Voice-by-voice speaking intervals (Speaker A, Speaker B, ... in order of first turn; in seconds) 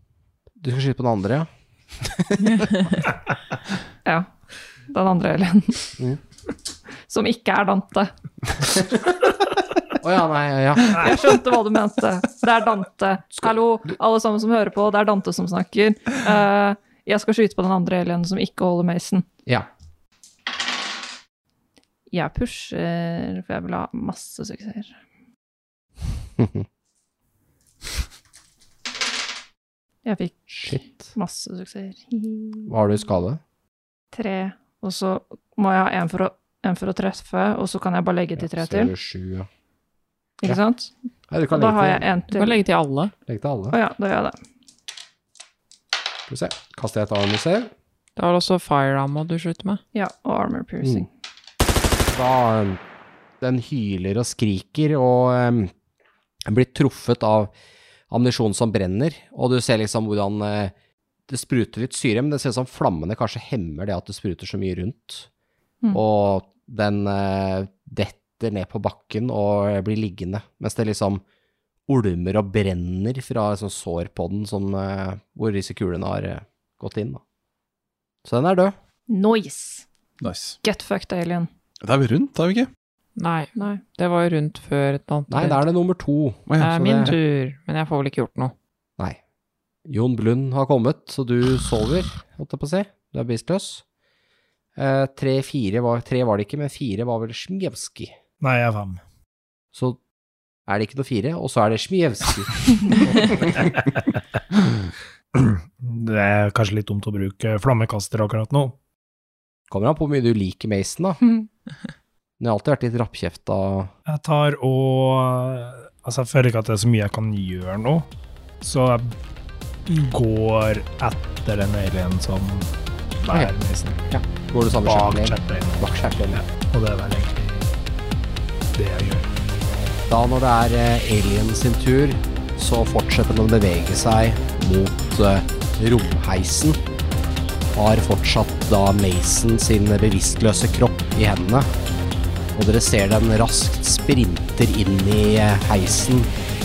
Speaker A: 0.6-1.5, 8.7-9.0, 9.9-11.0, 26.4-26.7, 30.5-31.1, 32.7-33.4, 38.4-39.5, 41.3-42.0, 43.3-43.8, 46.3-47.7, 52.1-52.8, 53.4-55.7, 56.5-57.5, 58.1-60.7, 61.3-65.3, 65.9-71.2, 71.9-77.2, 78.2-78.8, 85.3-87.1, 89.9-93.8, 94.8-98.2, 99.7-100.0, 100.7-103.0, 109.7-111.2, 112.4-113.9, 124.1-126.4, 130.1-136.8, 137.7-141.7, 142.6-146.3
Speaker B: 4.9-5.9, 7.0-8.1, 10.9-19.3, 22.1-25.0, 30.0-32.7, 34.1-38.9, 40.4-40.9, 41.5-42.6, 43.7-44.4, 49.9-51.1, 79.1-79.9, 80.6-81.5, 83.6-83.8
Speaker C: 42.3-43.1, 48.2-49.8, 83.2-85.6, 86.6-88.5
Speaker D: 80.2-80.6, 81.8-82.7, 86.5-87.2
Speaker E: 98.4-99.0, 103.2-103.6, 105.3-108.8, 114.1-118.1, 118.6-119.1, 119.9-122.7, 123.2-124.1, 124.8-127.7, 128.7-129.3